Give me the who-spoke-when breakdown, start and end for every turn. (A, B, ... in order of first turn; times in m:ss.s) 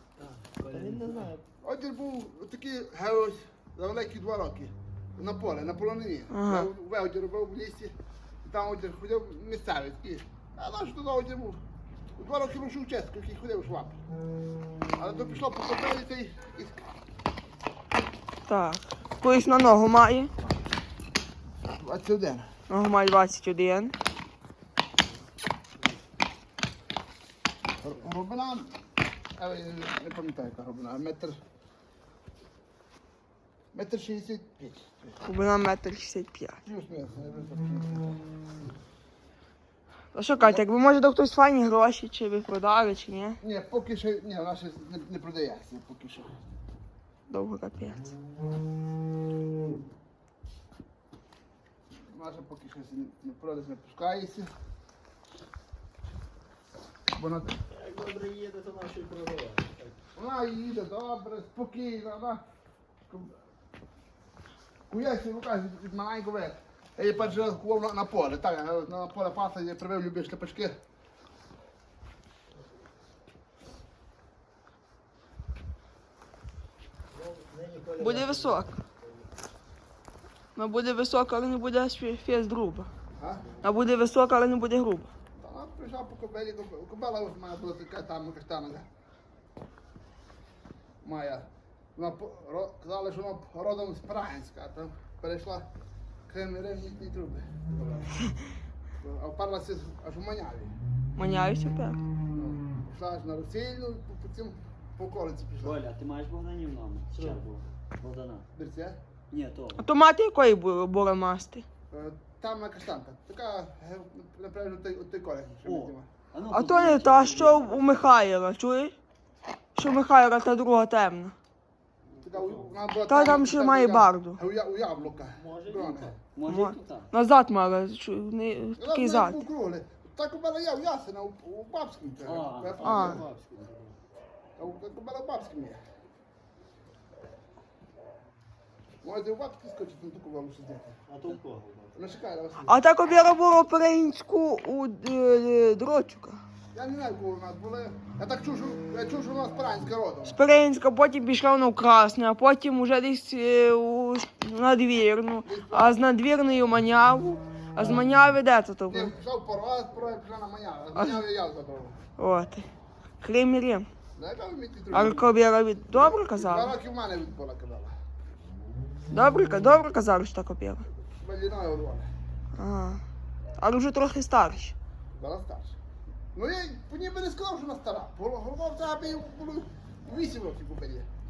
0:00.2-0:01.3 A
0:00.6-0:01.4 B
0:01.6-0:11.6 C
0:06.3-0:06.7 D
0:12.2-0:14.0 C
0:15.0-0:16.8 C
0:18.4-0:20.3 D
0:21.7-0:22.5 C
0:22.7-0:23.9 D
0:27.8-0:28.7 C
0:29.4-0:31.4 C
0:33.7-0:35.2 C
0:35.2-0:36.6 D
0:36.6-0:38.2 C
0:40.1-0:43.4 D
0:40.4-0:40.6 C
0:43.4-0:46.3 C
0:47.3-0:48.0 D
0:52.1-0:54.5 C
0:57.1-0:57.6 C
0:57.7-0:59.0 B
0:57.8-0:59.9 A
1:00.1-1:02.4 C
1:04.9-1:10.8 C
1:17.2-1:18.6 B
1:18.0-1:18.8 D
1:20.6-1:22.9 D
1:23.2-1:23.5 C
1:23.6-1:25.1 D
1:25.4-1:28.9 C
1:31.0-1:35.7 C
1:36.3-1:38.3 C
1:39.0-1:40.7 C
1:41.1-1:42.0 D
1:42.3-1:45.8 C
1:45.6-1:48.4 A
1:47.1-1:47.4 B
1:48.5-1:49.0 C
1:49.3-1:49.8 A
1:49.8-1:51.6 D
1:51.9-1:56.1 C
1:55.6-1:58.0 A
1:56.5-1:58.9 D
1:59.7-2:01.3 D
2:02.2-2:06.2 C
2:02.3-2:02.7 A
2:03.1-2:04.4 D
2:05.4-2:07.1 A
2:06.4-2:09.4 D
2:08.8-2:13.2 C
2:12.2-2:13.9 A
2:12.8-2:13.2 D
2:12.8-2:13.3 B
2:14.6-2:15.8 C
2:19.0-2:20.9 C
2:21.1-2:22.0 B
2:21.9-2:22.7 C
2:22.6-2:26.4 D
2:26.7-2:30.4 C
2:30.2-2:39.1 D
2:35.4-2:36.0 C
2:37.8-2:38.1 C
2:38.9-2:42.0 C
2:42.2-2:42.6 D
2:43.2-2:43.9 D
2:44.2-2:45.3 C
2:44.9-2:46.7 D
2:45.9-2:47.9 C
2:49.1-2:50.8 D
2:50.9-2:52.1 C
2:52.5-2:53.0 D
2:53.6-2:54.7 D
2:55.1-2:55.7 C
2:56.3-3:01.1 C